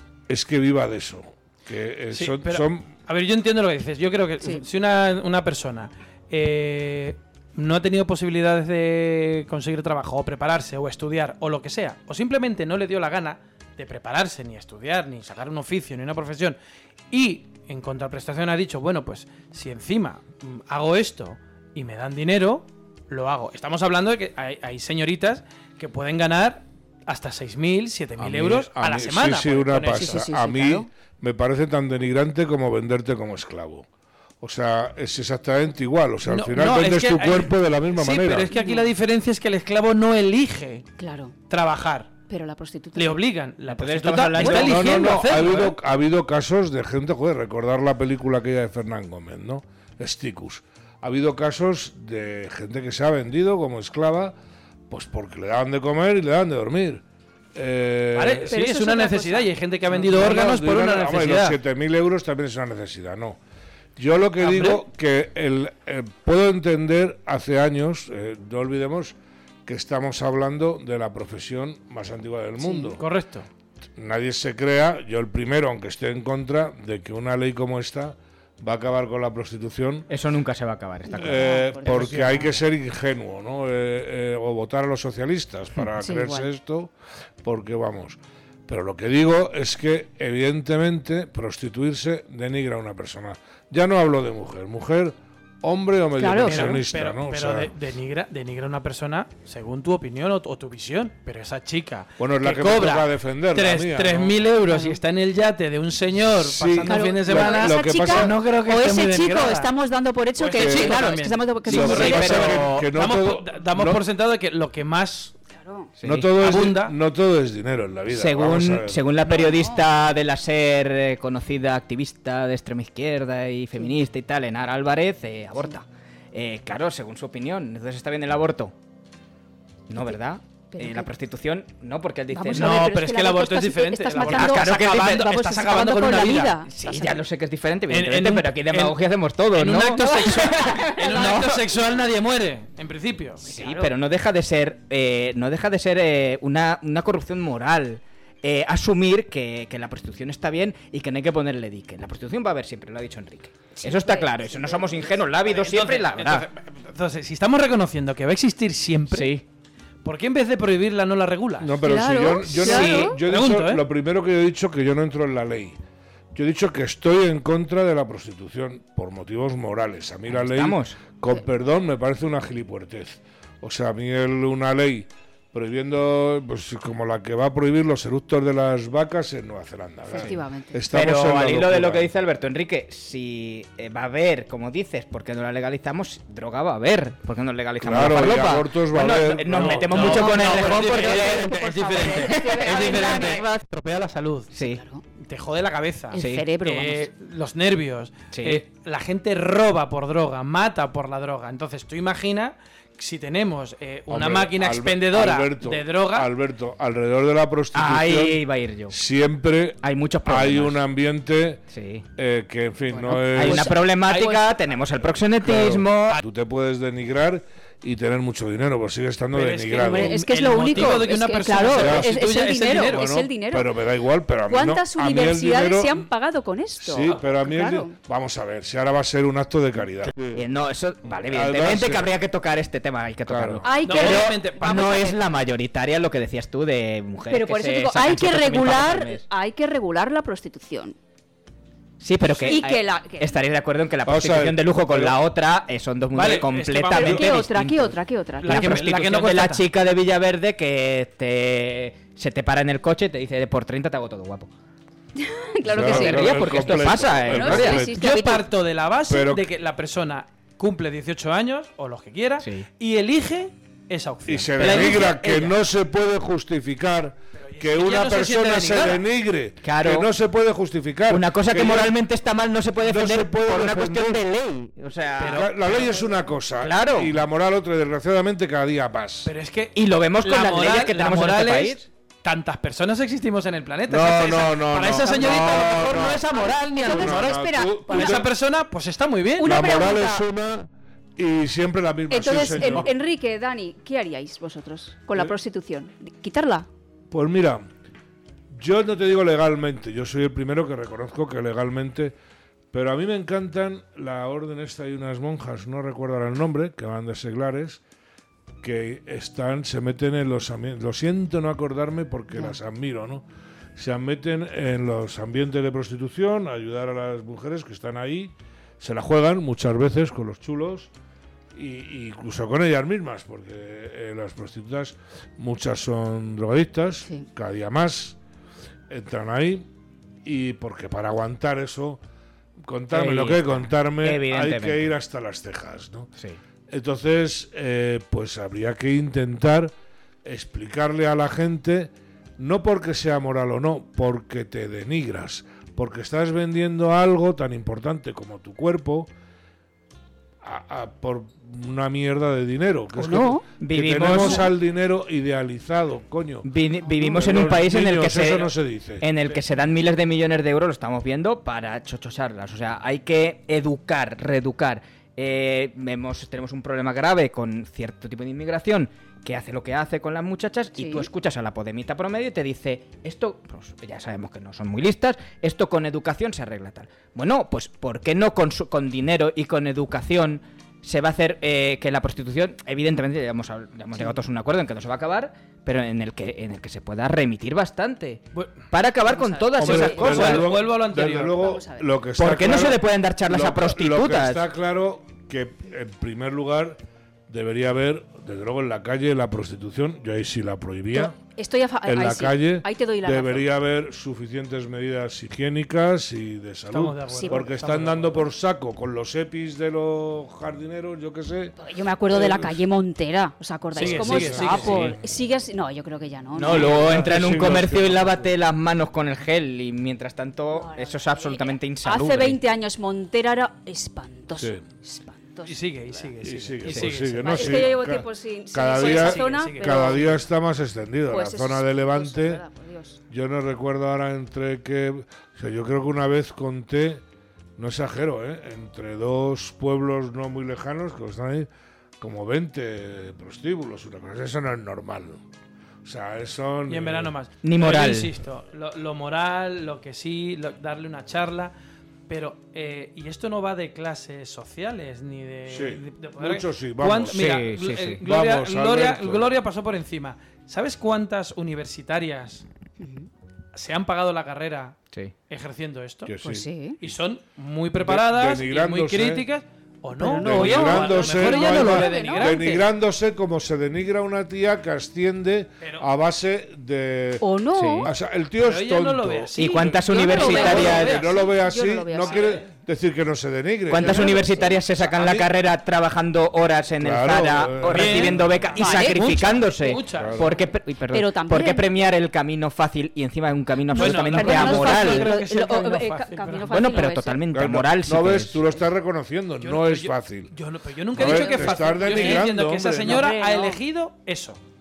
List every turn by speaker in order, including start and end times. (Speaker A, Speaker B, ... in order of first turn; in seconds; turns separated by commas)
Speaker A: 0.3-2.9, Speaker B: 2.1-16.6, Speaker B: 17.1-30.3, Speaker A: 28.2-33.9, Speaker C: 30.0-30.9, Speaker A: 34.4-38.5, Speaker B: 36.2-40.9, Speaker C: 38.5-38.9, Speaker C: 41.0-41.3, Speaker B: 41.5-42.1, Speaker C: 42.3-43.2, Speaker B: 43.0-45.8, Speaker D: 43.7-45.6, Speaker C: 44.3-44.7, Speaker A: 44.6-54.4, Speaker A: 54.9-57.0, Speaker A: 57.5-58.5, Speaker B: 58.1-61.6, Speaker C: 58.5-59.5, Speaker A: 60.0-63.4, Speaker A: 64.0-73.0, Speaker B: 64.4-64.8, Speaker B: 72.9-73.5, Speaker A: 74.0-80.1, Speaker D: 80.1-81.5, Speaker C: 81.1-82.6, Speaker A: 81.1-86.9, Speaker B: 81.8-82.5, Speaker C: 86.0-86.5, Speaker A: 87.4-97.7, Speaker C: 96.2-96.8, Speaker B: 96.4-109.7, Speaker A: 102.2-104.3, Speaker C: 104.7-105.0, Speaker A: 106.4-108.3, Speaker C: 106.8-112.4, Speaker B: 110.3-115.3, Speaker A: 110.5-111.1, Speaker A: 111.6-114.0, Speaker D: 111.7-112.6, Speaker C: 115.5-115.9, Speaker D: 116.0-116.4, Speaker A: 116.0-119.0, Speaker B: 116.4-116.9, Speaker D: 118.1-128.7, Speaker C: 119.2-119.8, Speaker D: 129.9-132.9, Speaker C: 130.7-131.1, Speaker C: 132.3-137.1, Speaker B: 132.5-137.2, Speaker D: 134.1-135.2, Speaker D: 136.7-141.5, Speaker B: 137.9-139.0, Speaker B: 139.5-143.4, Speaker C: 140.3-141.6, Speaker C: 143.4-143.9, Speaker D: 143.4-156.5, Speaker C: 153.8-154.9, Speaker B: 155.1-159.3, Speaker D: 159.1-159.4, Speaker B: 160.0-161.8, Speaker A: 161.6-165.8, Speaker C: 161.8-163.2, Speaker D: 162.6-163.1, Speaker B: 163.2-163.8, Speaker A: 166.3-182.1, Speaker D: 170.3-171.0, Speaker C: 180.1-180.8, Speaker D: 180.1-193.4, Speaker A: 187.8-190.3, Speaker B: 189.5-194.5, Speaker C: 190.1-193.4, Speaker D: 194.5-194.8, Speaker C: 194.6-195.0, Speaker B: 195.2-206.3, Speaker C: 196.1-197.1, Speaker D: 196.1-196.5, Speaker D: 198.3-198.6, Speaker A: 204.1-211.6, Speaker D: 207.7-208.9, Speaker D: 209.8-210.8, Speaker D: 211.7-212.1, Speaker A: 212.2-213.8, Speaker C: 212.9-214.4, Speaker D: 213.0-216.2, Speaker B: 214.0-214.4, Speaker A: 215.3-221.0, Speaker B: 219.3-223.1, Speaker C: 219.8-223.7, Speaker A: 221.6-222.1, Speaker A: 222.8-226.1, Speaker C: 224.5-227.9, Speaker A: 226.8-230.4, Speaker D: 230.3-239.2, Speaker A: 231.2-232.1, Speaker A: 233.2-233.7, Speaker C: 233.6-235.2, Speaker B: 233.8-235.1, Speaker C: 237.2-240.9, Speaker D: 242.0-254.5, Speaker B: 242.3-242.6, Speaker C: 242.4-243.3, Speaker A: 244.0-245.2, Speaker B: 246.1-247.4, Speaker C: 246.9-248.8, Speaker B: 248.4-249.6, Speaker C: 255.2-258.4, Speaker A: 255.6-258.0, Speaker D: 255.8-257.8, Speaker B: 257.3-265.0, Speaker A: 259.1-259.5, Speaker D: 262.4-262.7, Speaker A: 264.3-271.9, Speaker D: 264.6-265.6, Speaker B: 267.4-269.0, Speaker D: 269.6-270.1, Speaker D: 271.1-275.5, Speaker A: 272.8-274.2, Speaker B: 275.1-275.9, Speaker A: 275.2-279.3, Speaker D: 276.5-277.1, Speaker B: 279.2-287.3, Speaker D: 279.7-281.9, Speaker A: 283.9-286.2, Speaker C: 285.0-288.2, Speaker D: 285.6-286.8, Speaker A: 286.8-288.3, Speaker B: 287.9-289.6, Speaker C: 289.4-290.2, Speaker A: 289.4-292.9, Speaker C: 292.1-296.7, Speaker A: 297.1-297.7, Speaker A: 298.5-302.1, Speaker A: 302.7-307.8, Speaker A: 308.6-313.2, Speaker A: 313.8-320.9, Speaker A: 321.5-328.2, Speaker A: 328.9-329.6, Speaker A: 330.2-332.0, Speaker A: 332.6-336.1, Speaker D: 332.9-334.9, Speaker A: 336.7-339.7, Speaker A: 340.2-349.1, Speaker A: 350.4-356.5, Speaker C: 353.0-353.4, Speaker D: 353.1-354.5, Speaker C: 354.1-354.5, Speaker D: 356.4-390.4, Speaker C: 356.8-357.2, Speaker A: 357.0-359.1, Speaker C: 370.7-371.1, Speaker C: 383.9-384.2, Speaker B: 388.3-388.6, Speaker C: 389.0-390.5, Speaker A: 389.6-401.1, Speaker B: 389.6-391.4, Speaker C: 391.2-392.0, Speaker D: 392.2-394.4, Speaker C: 400.9-403.4, Speaker A: 401.9-412.6, Speaker B: 406.7-408.3, Speaker C: 407.1-407.5, Speaker C: 411.6-416.9, Speaker B: 413.7-415.0, Speaker A: 413.7-415.1, Speaker D: 416.3-422.4, Speaker A: 416.4-418.4, Speaker C: 420.5-426.1, Speaker B: 425.4-427.7, Speaker A: 426.2-432.4, Speaker C: 427.2-430.2, Speaker B: 428.7-430.2, Speaker C: 431.1-433.0, Speaker A: 433.1-437.0, Speaker A: 437.6-441.5, Speaker A: 442.0-445.2, Speaker A: 445.8-447.1, Speaker B: 446.7-451.5, Speaker D: 447.4-448.1, Speaker B: 452.1-462.4, Speaker A: 455.5-457.5, Speaker D: 457.1-458.0, Speaker A: 458.0-459.4, Speaker C: 462.8-463.1, Speaker B: 463.5-464.8, Speaker B: 465.3-466.1, Speaker A: 466.0-467.0, Speaker C: 466.2-466.8, Speaker B: 466.8-472.7, Speaker A: 467.8-469.3, Speaker C: 469.9-472.4, Speaker A: 470.2-477.3, Speaker D: 470.3-470.8, Speaker B: 475.6-475.9, Speaker C: 477.2-477.9, Speaker D: 477.6-477.9, Speaker A: 477.8-479.6, Speaker B: 478.4-481.2, Speaker D: 479.3-480.9, Speaker C: 479.6-482.3, Speaker A: 480.1-485.3, Speaker B: 482.0-482.4, Speaker D: 483.7-495.1, Speaker C: 483.8-484.6, Speaker A: 486.8-488.6, Speaker B: 487.6-490.4, Speaker C: 488.5-489.4, Speaker A: 489.9-490.3, Speaker C: 490.9-491.7, Speaker B: 493.7-496.9, Speaker C: 493.7-497.2, Speaker D: 496.5-498.6, Speaker A: 497.3-500.3, Speaker B: 499.4-504.4, Speaker A: 500.9-503.1, Speaker C: 501.0-502.1, Speaker C: 502.8-503.6